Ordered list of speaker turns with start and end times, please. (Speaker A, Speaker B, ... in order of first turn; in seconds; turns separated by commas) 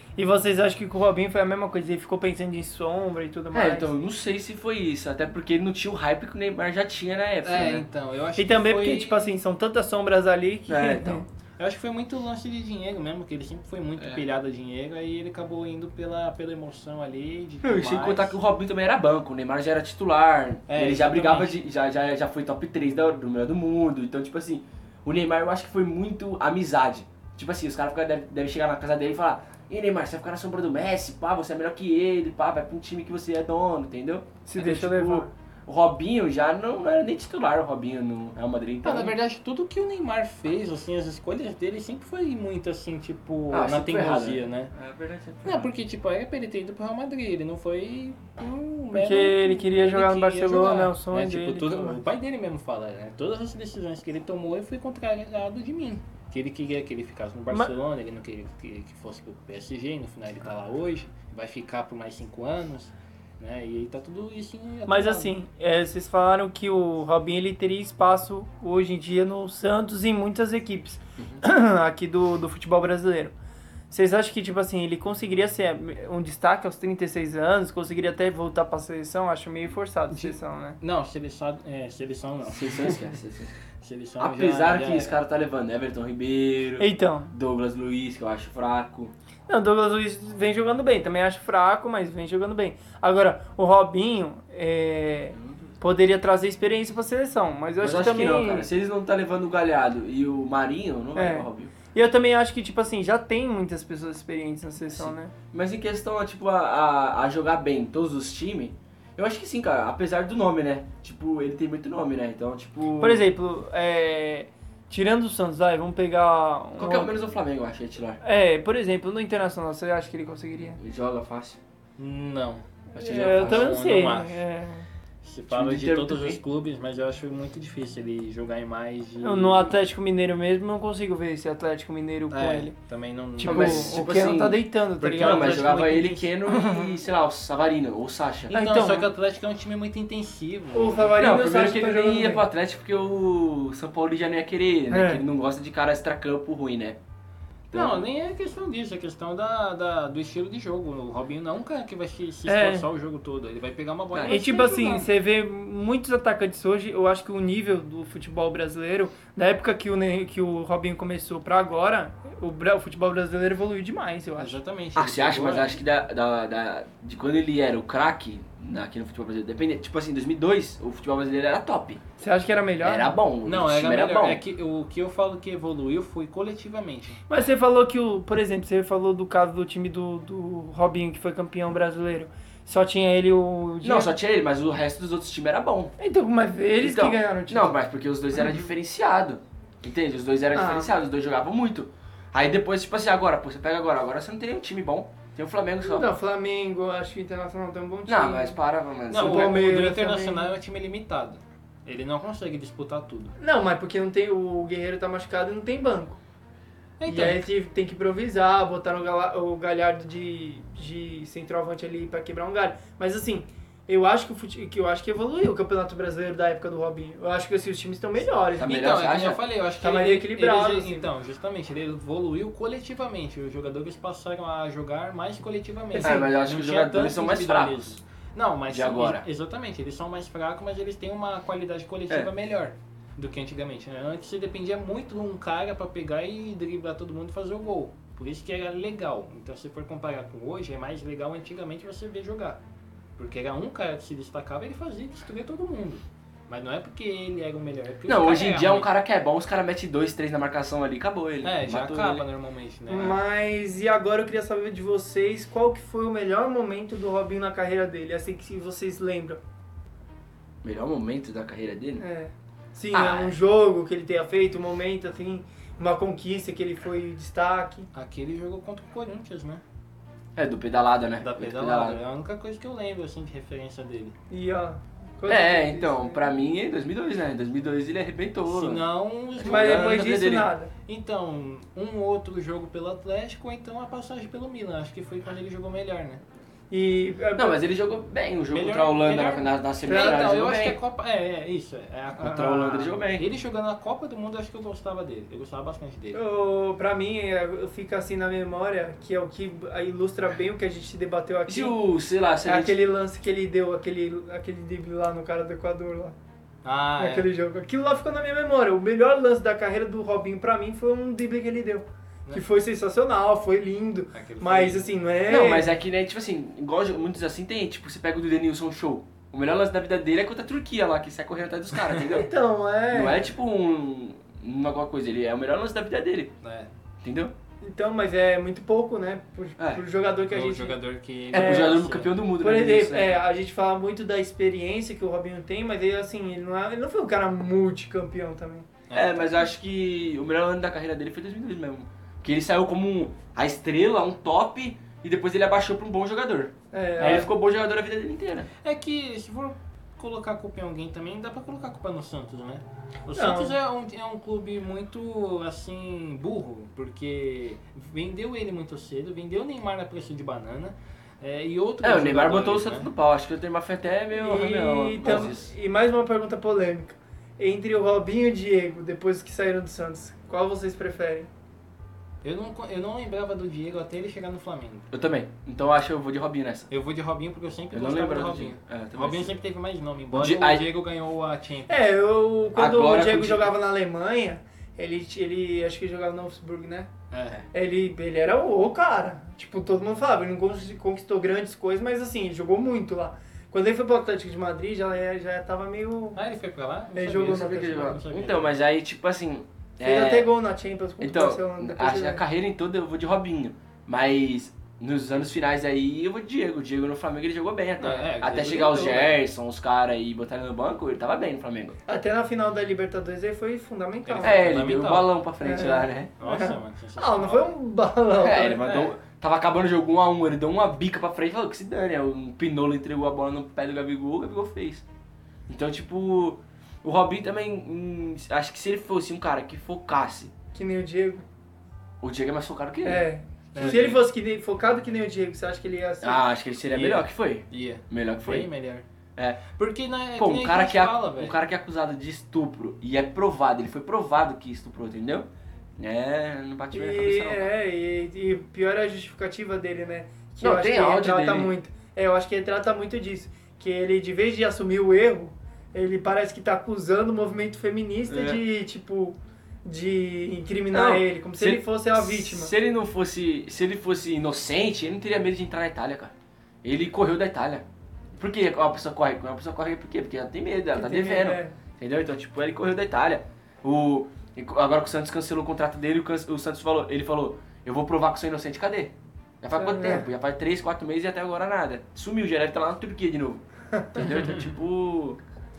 Speaker A: 0.2-3.9, Speaker B: 3.5-7.8, Speaker C: 7.4-9.3, Speaker A: 8.4-11.2, Speaker B: 10.7-11.2, Speaker C: 11.6-18.4, Speaker B: 17.6-39.1, Speaker C: 20.7-21.5, Speaker A: 34.4-35.3, Speaker C: 38.8-44.7, Speaker B: 43.5-45.7, Speaker C: 45.4-65.3, Speaker A: 48.9-52.0, Speaker A: 64.9-73.3, Speaker A: 73.9-80.8, Speaker C: 80.1-83.0, Speaker B: 82.5-83.5, Speaker C: 83.8-85.2, Speaker B: 84.2-89.1, Speaker A: 86.8-87.3, Speaker A: 89.5-98.7, Speaker B: 95.3-95.7, Speaker B: 97.8-101.7, Speaker A: 101.2-105.3, Speaker B: 104.9-113.3, Speaker A: 113.0-117.3, Speaker B: 116.8-118.2, Speaker A: 118.2-120.8, Speaker B: 120.8-121.6, Speaker C: 122.0-124.4, Speaker A: 122.9-124.9, Speaker B: 122.9-123.7, Speaker C: 125.2-129.8, Speaker B: 125.5-126.4, Speaker A: 129.2-132.7, Speaker C: 132.3-134.1, Speaker A: 133.4-137.0, Speaker B: 133.4-138.5, Speaker C: 135.0-136.0, Speaker A: 138.5-139.1, Speaker C: 138.5-141.3, Speaker A: 140.7-142.4, Speaker B: 141.2-147.0, Speaker A: 144.9-145.2, Speaker B: 147.7-148.1, Speaker C: 147.7-155.1, Speaker A: 152.5-152.9, Speaker A: 154.2-164.6, Speaker C: 164.4-165.8, Speaker B: 164.9-172.0, Speaker A: 172.2-173.2, Speaker B: 172.8-174.4, Speaker C: 173.4-177.2, Speaker A: 177.3-184.1, Speaker B: 183.8-185.9, Speaker A: 186.0-187.8, Speaker B: 186.8-196.1, Speaker A: 188.3-188.6, Speaker A: 190.5-191.0, Speaker A: 195.8-198.6, Speaker B: 198.1-199.6, Speaker C: 199.1-203.3, Speaker A: 199.1-200.5, Speaker A: 203.4-206.2, Speaker C: 207.0-207.4, Speaker A: 207.1-218.8, Speaker B: 218.6-219.4, Speaker C: 218.6-242.6, Speaker A: 219.8-221.1, Speaker A: 225.9-226.3, Speaker B: 226.0-228.0, Speaker B: 228.7-229.2, Speaker C: 243.2-248.9, Speaker B: 248.1-252.2, Speaker C: 251.4-253.2, Speaker A: 252.9-259.4, Speaker B: 260.6-262.0, Speaker A: 262.0-267.9, Speaker B: 262.9-263.4, Speaker C: 267.9-269.6, Speaker B: 270.4-272.0, Speaker C: 271.2-274.1, Speaker A: 274.3-276.2, Speaker B: 275.3-278.8, Speaker C: 278.5-279.9, Speaker B: 279.4-280.5, Speaker A: 279.4-280.7, Speaker C: 280.9-286.2, Speaker A: 286.7-287.6, Speaker B: 287.4-290.8, Speaker C: 288.5-296.2, Speaker A: 289.8-290.3, Speaker B: 292.1-293.3, Speaker A: 296.1-301.8, Speaker B: 301.5-302.8, Speaker A: 302.4-306.1, Speaker C: 306.6-307.3, Speaker A: 307.0-315.7, Speaker C: 314.1-314.9, Speaker B: 315.3-322.3, Speaker A: 322.1-323.3, Speaker B: 322.9-326.3, Speaker C: 326.4-326.7, Speaker B: 327.0-327.3, Speaker A: 327.6-330.8, Speaker C: 330.3-332.1, Speaker B: 331.3-333.2, Speaker A: 331.3-331.8, Speaker A: 332.4-338.7, Speaker C: 338.9-339.3, Speaker B: 338.9-348.5, Speaker A: 346.7-347.3, Speaker C: 347.0-347.3, Speaker C: 348.6-362.9, Speaker A: 353.1-353.6, Speaker B: 361.8-365.5, Speaker A: 364.1-371.3, Speaker C: 372.2-374.9, Speaker B: 374.9-376.7, Speaker C: 376.7-381.7, Speaker B: 377.7-379.4, Speaker B: 380.1-380.7, Speaker A: 381.7-386.9, Speaker B: 382.6-383.5, Speaker C: 387.1-387.4, Speaker A: 387.5-396.2, Speaker C: 396.1-398.5, Speaker A: 396.9-398.0, Speaker B: 397.2-400.3, Speaker A: 399.8-402.2, Speaker B: 401.0-411.8, Speaker C: 407.8-409.2, Speaker A: 411.9-414.4, Speaker C: 414.1-415.1, Speaker B: 414.2-416.1, Speaker A: 415.4-418.8, Speaker C: 416.2-417.5, Speaker B: 418.2-424.8, Speaker C: 418.6-418.9, Speaker B: 425.5-430.3, Speaker A: 430.5-431.2, Speaker B: 432.0-434.0, Speaker A: 432.8-436.2, Speaker C: 433.5-434.0, Speaker B: 436.0-438.5, Speaker C: 436.7-438.9, Speaker B: 439.1-439.5, Speaker C: 439.5-441.4, Speaker B: 440.2-445.3, Speaker B: 445.8-447.5, Speaker A: 446.7-462.5, Speaker B: 450.4-451.5, Speaker B: 458.1-458.4, Speaker B: 460.7-467.6, Speaker B: 468.1-485.2, Speaker A: 470.7-471.5, Speaker A: 479.5-480.1